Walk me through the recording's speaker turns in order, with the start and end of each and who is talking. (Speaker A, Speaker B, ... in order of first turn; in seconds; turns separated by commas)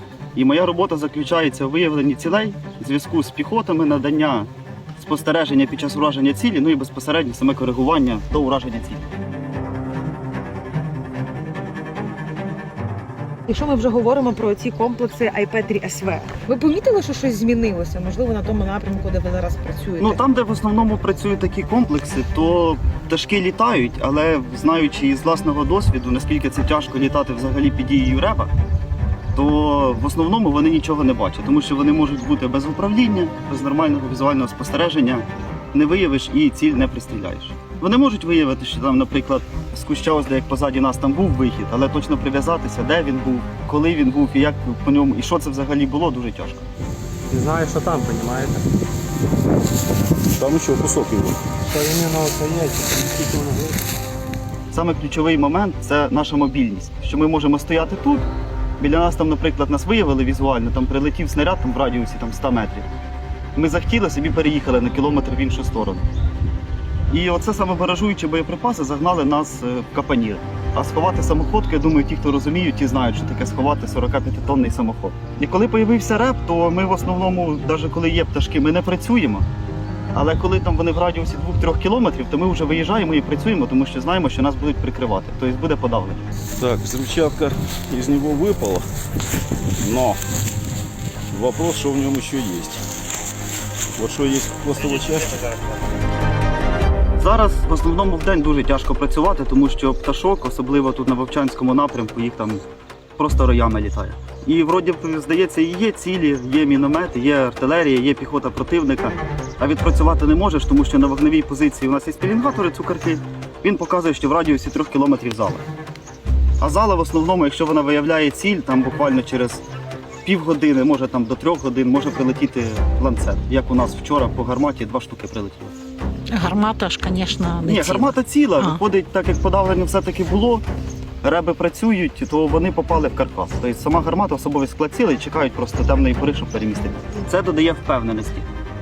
Speaker A: 0.3-9.0, Speaker B: 13.5-20.2, Speaker A: 20.0-28.5, Speaker A: 29.3-46.6, Speaker C: 47.3-48.7, Speaker D: 50.3-51.4, Speaker C: 51.6-53.8, Speaker A: 54.7-58.2, Speaker A: 58.8-62.9, Speaker A: 63.5-66.0, Speaker A: 67.1-79.5, Speaker A: 80.1-86.2, Speaker D: 86.5-88.9, Speaker D: 89.8-90.2, Speaker D: 91.3-92.8, Speaker D: 94.0-95.6, Speaker A: 97.2-102.6, Speaker A: 103.2-115.7, Speaker A: 116.6-119.6, Speaker A: 120.2-125.7, Speaker E: 126.3-128.8, Speaker A: 127.6-130.6, Speaker A: 131.2-138.5